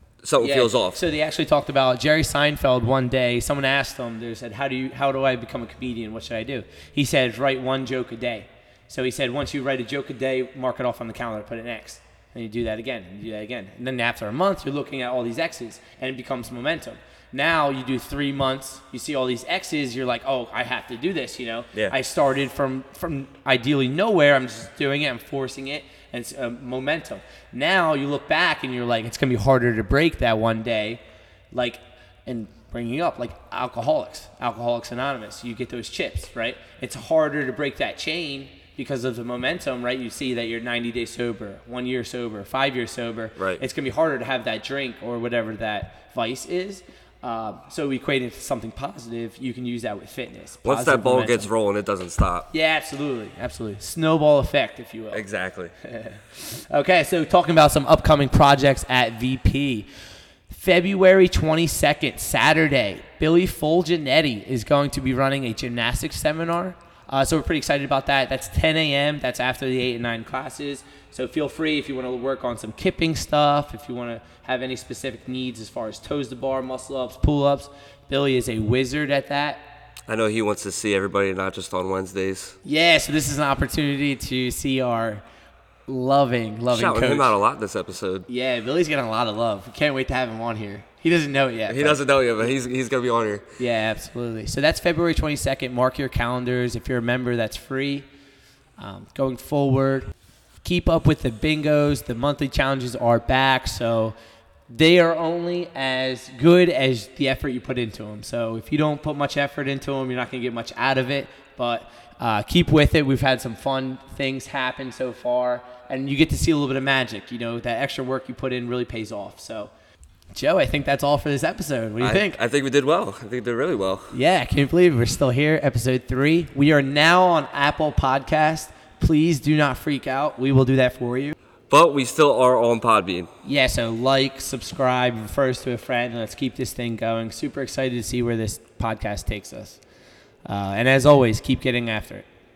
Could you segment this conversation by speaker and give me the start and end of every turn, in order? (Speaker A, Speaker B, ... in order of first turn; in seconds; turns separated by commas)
Speaker A: 0.2-1.0, Speaker B: 0.4-51.5, Speaker A: 43.4-43.6, Speaker A: 50.6-52.5, Speaker B: 52.5-55.2, Speaker A: 55.1-55.7, Speaker B: 55.8-59.9, Speaker B: 60.5-79.6, Speaker A: 80.1-82.5, Speaker B: 82.6-85.2, Speaker B: 85.9-87.3, Speaker A: 86.7-88.2, Speaker B: 88.3-92.0, Speaker A: 91.7-93.4, Speaker B: 93.6-98.1, Speaker B: 98.8-100.1, Speaker B: 100.6-104.1, Speaker B: 104.7-119.7, Speaker B: 120.3-122.4, Speaker A: 122.0-124.1, Speaker B: 124.1-131.3, Speaker A: 131.7-133.3, Speaker B: 133.4-139.8, Speaker B: 140.4-142.2